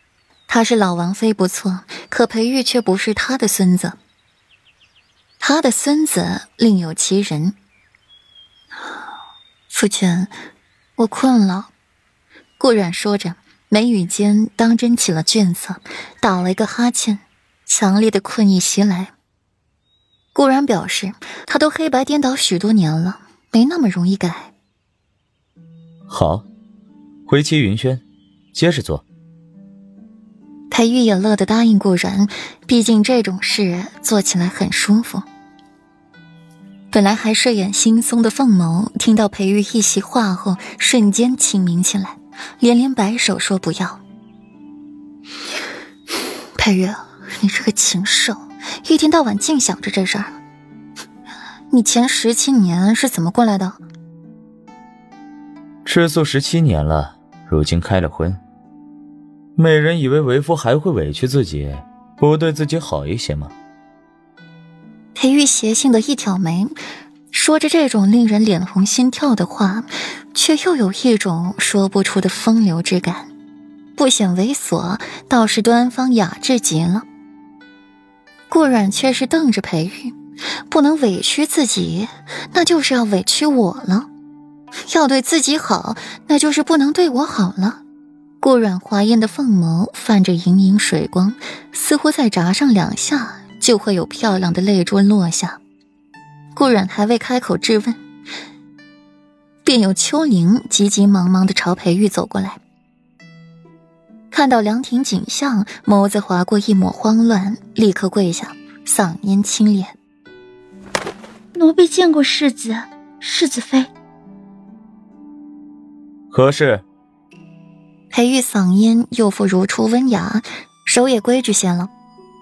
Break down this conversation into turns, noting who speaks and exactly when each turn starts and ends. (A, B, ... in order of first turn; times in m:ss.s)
0:00.5-0:04.0 A
0:05.4-0:07.6 A
0:09.7-0:10.3 A
0:11.0-0:11.7 A
0:12.6-0:19.1 A
0:20.3-0:24.5 A
0:26.1-0:26.4 B
0:27.3-0:28.0 B
0:28.5-0:29.0 B
0:30.7-0:35.2 A
0:36.9-0:44.0 A
0:46.6-0:50.4 A
0:51.7-0:53.8 A
0:55.8-0:58.4 B
0:59.6-1:03.5 B
1:05.1-1:06.8 A
1:07.3-1:13.3 A
1:14.0-1:17.0 A
1:18.5-1:20.1 A
1:20.7-1:24.1 A
1:24.9-1:27.8 A
1:28.4-1:35.6 A
1:36.5-1:38.0 A
1:39.6-1:42.6 A
1:44.3-1:49.9 A
1:51.5-1:53.9 C
1:56.3-1:56.8 B
1:58.1-2:01.9 A